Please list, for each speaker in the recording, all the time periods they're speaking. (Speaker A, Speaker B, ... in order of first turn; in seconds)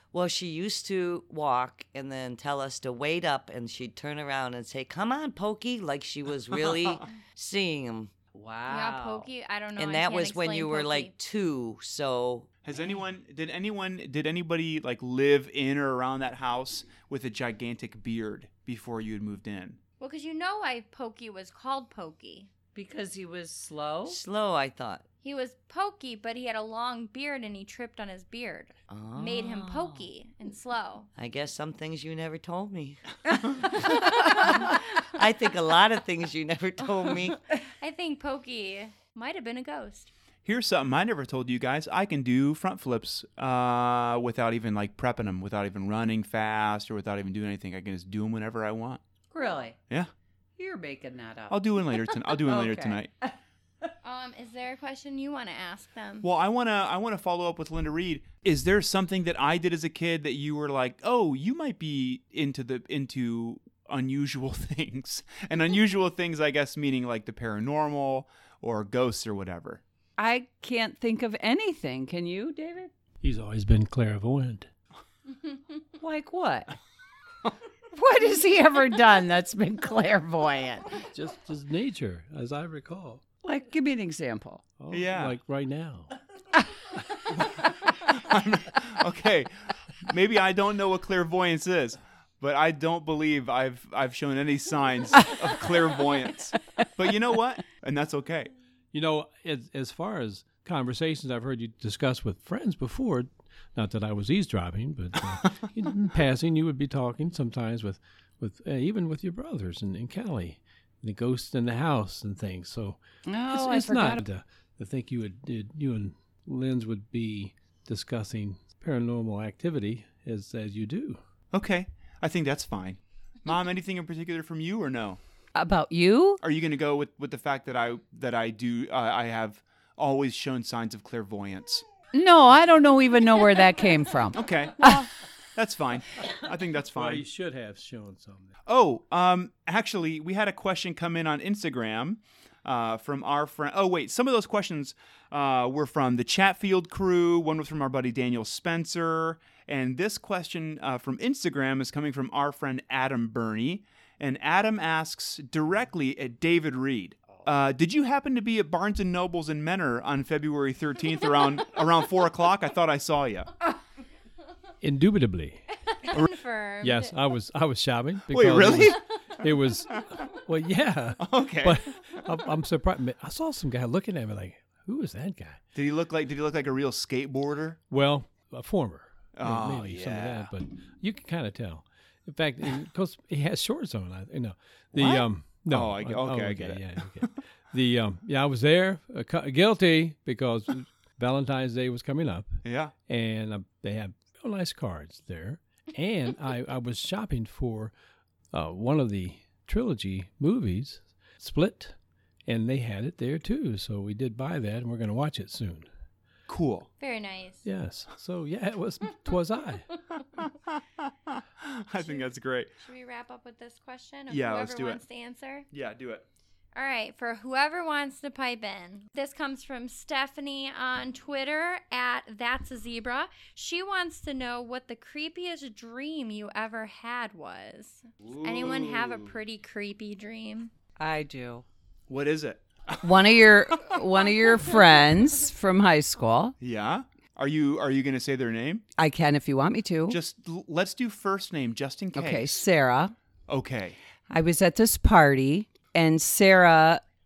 Speaker A: 0.1-8.1, 9.8-12.5, 24.1-25.0, 28.9-30.1, 31.2-37.4
Speaker B: 8.3-9.3, 22.7-24.2, 49.3-49.8, 50.6-53.3, 70.2-72.9, 76.0-76.8, 77.9-81.0, 83.4-84.6, 95.2-95.5, 113.3-114.2, 125.5-126.4, 132.1-135.0, 231.0-231.7, 233.0-236.5, 239.0-240.2, 242.1-243.1, 244.3-247.0
Speaker C: 8.7-11.1, 20.0-22.5, 25.2-31.1, 33.7-35.1, 37.6-40.1, 54.0-56.3, 166.0-167.1, 207.0-207.6, 212.0-212.3, 212.8-215.7, 216.7-230.7
Speaker D: 12.6-19.8, 40.4-49.0, 51.5-53.1, 56.2-69.8, 84.9-85.4, 87.4-98.5, 121.5-125.2, 126.4-131.8, 134.3-137.2, 138.7-163.5, 168.3-169.0, 171.2-172.3, 175.7-177.8, 179.3-180.5, 184.9-187.2, 192.6-192.9, 206.5-206.9, 210.4-212.7, 214.3-215.0, 215.7-216.2, 228.2-229.3, 232.1-233.1, 236.6-238.8, 240.1-242.6, 243.5-244.0
Speaker E: 73.2-74.7, 81.0-83.2, 84.8-86.1, 98.9-113.0, 113.5-121.2, 136.9-138.5, 164.8-165.6, 166.8-175.6, 177.9-197.9, 198.5-205.9, 207.6-209.9